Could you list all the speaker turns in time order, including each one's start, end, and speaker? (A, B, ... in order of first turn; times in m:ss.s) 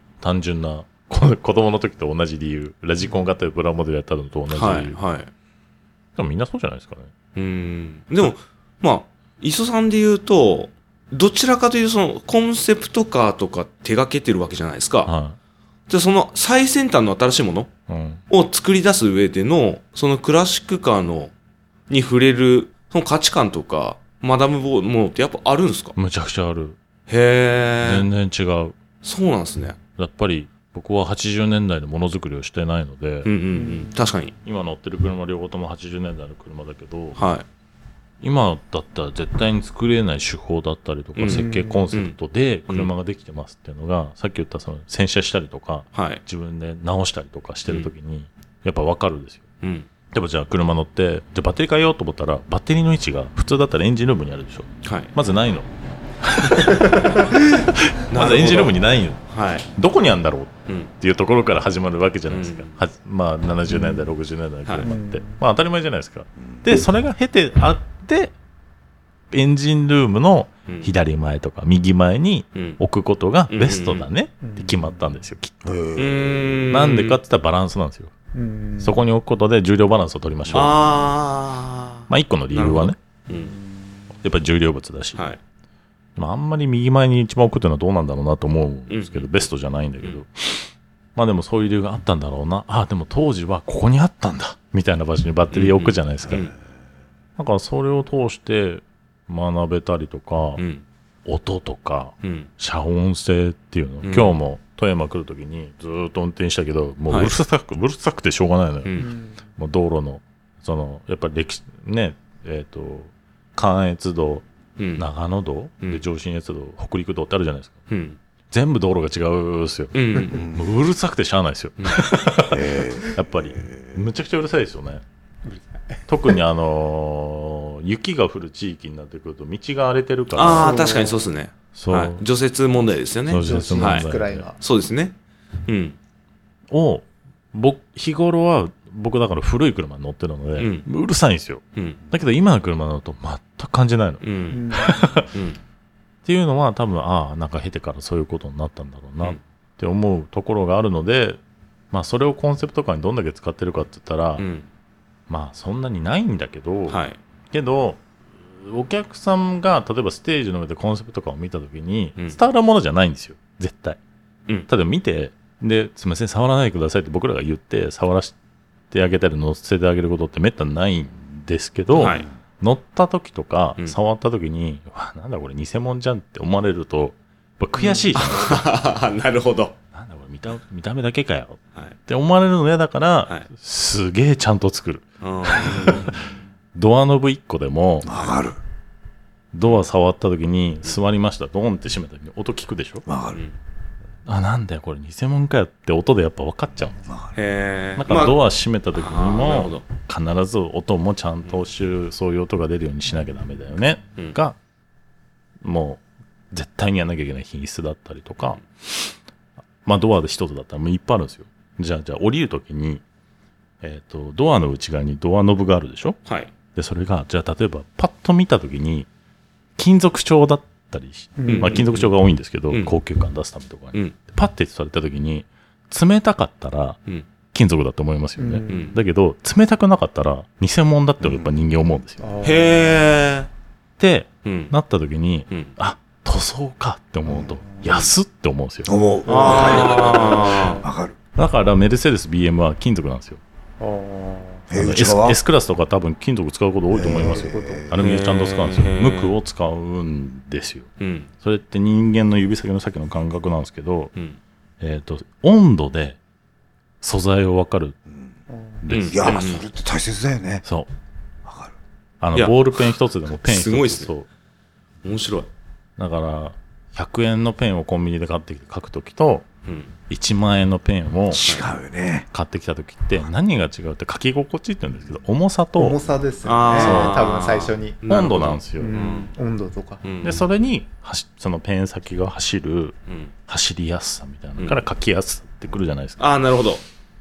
0:00.2-0:05.0 A
0:04.5-0:05.3 B
0:06.2-0:07.1 A
0:07.4-0:15.1 B
0:15.0-0:15.4 A
0:15.9-0:17.7 B
0:17.9-0:18.2 A
0:18.3-0:21.3 B
0:21.9-0:26.0 B
0:26.0-0:26.8 A
0:27.1-0:28.1 B
0:27.8-0:28.8 A
0:29.0-0:29.8 B
0:30.0-0:33.3 A
0:33.2-0:34.3 B
0:33.5-0:33.9 C
0:34.4-0:37.2 A
0:37.2-0:37.4 B
0:38.2-0:49.4 A
0:41.2-0:42.2 B
0:41.3-0:41.9 C
0:45.9-0:46.2 B
0:49.6-0:49.9 B
0:50.1-0:55.7 A
0:54.8-0:55.1 B
0:56.2-0:59.2 A
0:56.9-0:58.8 B
0:59.3-0:59.7 B
0:59.7-1:08.3 A
1:00.7-1:00.9 B
1:02.3-1:02.8 B
1:03.7-1:04.1 C
1:04.6-1:04.9 B
1:04.8-1:05.4 C
1:09.3-1:15.6 A
1:10.7-1:10.9 B
1:13.5-1:14.1 B
1:14.4-1:15.0 C
1:15.6-1:16.6 D
1:16.0-1:17.2 B
1:16.7-1:18.1 A
1:18.3-1:19.0 C
1:18.8-1:20.8 A
1:20.5-1:23.6 B
1:22.1-1:23.0 A
1:23.3-1:23.8 C
1:24.2-1:25.3 A
1:26.2-1:36.5 A
1:28.9-1:29.3 B
1:35.5-1:36.5 B
1:37.4-1:40.6 A
1:40.6-1:40.8 B
1:41.2-1:49.0 A
1:42.2-1:42.5 B
1:44.0-1:44.4 B
1:47.1-1:47.3 B
1:49.0-1:49.4 C
1:49.6-1:54.4 A
1:54.8-1:55.0 B
1:55.0-1:57.8 A
1:57.9-1:58.2 B
1:58.5-2:05.0 A
1:59.9-2:00.5 B
2:00.3-2:00.6 D
2:01.8-2:02.0 B
2:02.5-2:04.0 D
2:05.4-2:06.4 C
2:06.1-2:10.9 A
2:10.3-2:14.0 B
2:10.5-2:11.2 C
2:11.7-2:12.2 A
2:13.3-2:14.5 A
2:13.4-2:14.6 C
2:14.6-2:15.1 B
2:15.7-2:16.0 B
2:16.7-2:25.3 A
2:20.6-2:20.8 B
2:21.8-2:22.0 B
2:24.2-2:25.6 B
2:24.5-2:25.0 C
2:26.2-2:31.4 A
2:31.9-2:34.4 A
2:34.4-2:34.7 B
2:35.3-2:38.0 A
2:36.9-2:37.2 B
2:38.5-2:44.0 A
2:44.7-2:48.3 A
2:48.9-2:58.6 A
2:51.9-2:52.2 B
2:57.8-2:58.0 C
2:58.1-2:59.8 B
2:59.9-3:06.2 A
3:05.2-3:06.1 B
3:06.7-3:08.2 A
3:08.0-3:08.6 D
3:09.5-3:13.0 A
3:13.1-3:13.4 D
3:14.2-3:17.0 A
3:17.1-3:17.3 D
3:17.4-3:18.4 B
3:18.0-3:24.6 A
3:18.9-3:19.8 B
3:25.6-3:29.1 A
3:29.8-3:33.0 A
3:33.8-3:36.2 A
3:36.7-3:39.1 A
3:39.8-3:47.0 A
3:41.4-3:41.8 C
3:41.5-3:42.1 B
3:47.5-3:52.3 A
3:48.4-3:49.0 C
3:48.7-3:48.9 B
3:51.2-3:51.5 D
3:52.2-3:52.9 C
3:52.4-3:53.5 B
3:54.0-3:58.9 A
3:54.4-3:54.7 B
3:57.3-3:57.5 D
3:57.8-3:58.0 C
3:58.8-4:01.2 D
3:59.3-4:00.8 B
3:59.3-4:00.8 C
4:01.3-4:03.4 A
4:03.8-4:04.7 C
4:04.7-4:05.4 D
4:04.8-4:10.9 A
4:06.9-4:08.0 D
4:07.0-4:07.9 C
4:08.0-4:09.4 B
4:11.0-4:11.3 B
4:11.4-4:14.1 A
4:14.8-4:16.2 A
4:17.0-4:18.0 A
4:18.5-4:18.8 C
4:18.8-4:19.5 A
4:18.9-4:19.6 B
4:19.1-4:20.6 D
4:21.4-4:21.7 D
4:22.2-4:24.3 A
4:22.3-4:22.8 B
4:23.4-4:24.1 B
4:25.0-4:25.5 B
4:26.0-4:29.4 A
4:29.6-4:29.9 B
4:30.1-4:31.4 A
4:31.3-4:32.3 D
4:32.3-4:36.0 A
4:35.8-4:38.0 C
4:36.4-4:39.3 B
4:36.8-4:37.2 A
4:38.1-4:39.0 A
4:38.8-4:40.0 C
4:40.0-4:40.4 B
4:40.2-4:46.3 A
4:46.2-4:46.8 B